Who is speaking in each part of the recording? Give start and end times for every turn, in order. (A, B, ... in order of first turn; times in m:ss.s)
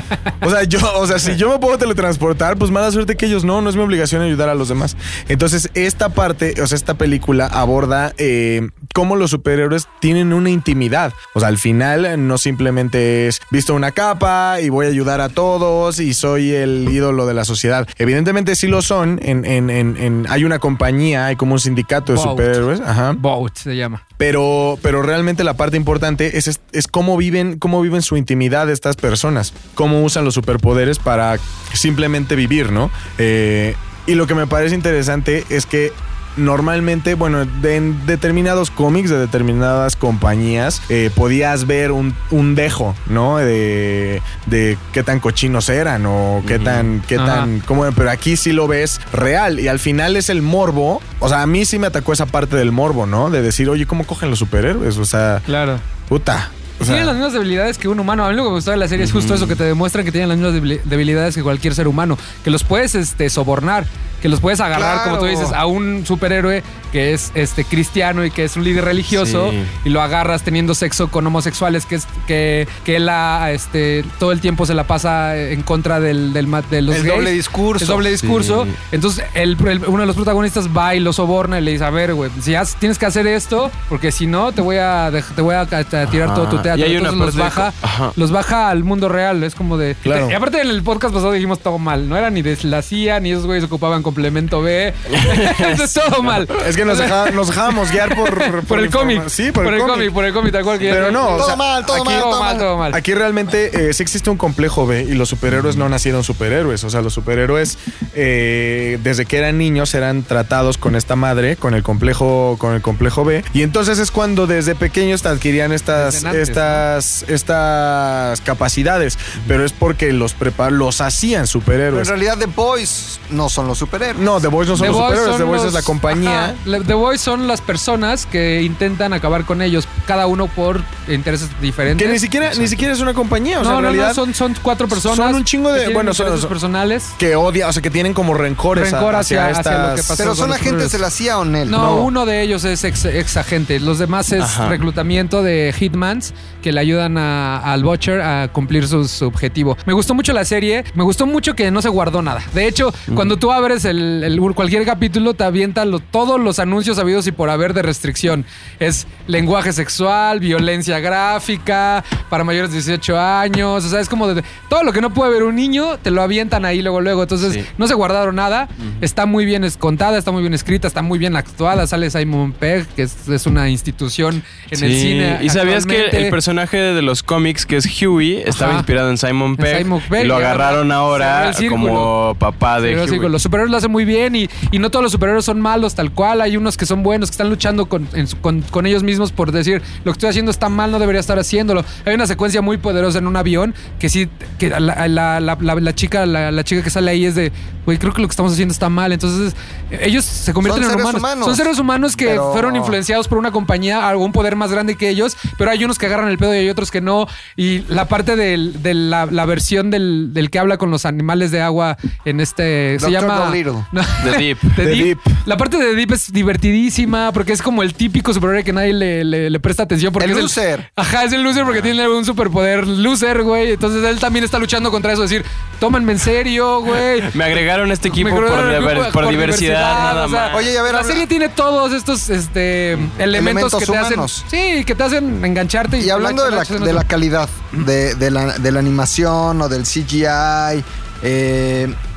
0:00.4-0:23.2 A
0:22.1-0:22.6 B
0:23.1-0:24.0 B
0:24.2-0:55.4 A
0:46.4-0:46.9 C
0:47.1-0:47.5 B
0:55.5-0:55.8 B
0:56.1-0:57.2 A
0:56.8-1:43.0 B
0:59.0-0:59.6 C
1:04.7-1:05.6 D
1:09.1-1:09.7 C
1:16.9-1:18.1 D
1:18.2-1:18.7 C
1:26.1-1:28.2 C
1:30.0-1:30.4 A
1:35.1-1:36.4 C
1:36.6-1:40.2 A
1:40.8-1:41.6 A
1:41.3-1:42.7 D
1:42.9-2:02.1 A
1:55.9-1:56.8 B
2:01.9-2:04.4 D
2:04.1-2:06.6 A
2:04.8-2:12.7 B
2:12.0-2:14.2 A
2:13.6-2:17.2 B
2:14.9-2:16.5 A
2:17.2-2:20.2 A
2:18.7-2:21.0 B
2:20.2-2:22.1 D
2:21.7-2:56.4 B
2:24.4-2:24.8 C
2:48.8-2:49.0 C
2:54.7-3:03.3 C
2:58.5-2:58.9 B
2:59.6-3:02.1 B
3:02.8-3:47.4 B
3:20.6-3:21.7 D
3:22.2-3:23.0 D
3:33.0-3:33.9 D
3:34.2-3:34.8 C
3:34.8-3:35.4 A
3:40.2-3:40.9 D
3:47.2-3:50.7 C
3:48.1-3:57.1 B
3:50.5-3:51.2 D
3:53.3-3:54.4 D
3:56.0-4:02.0 D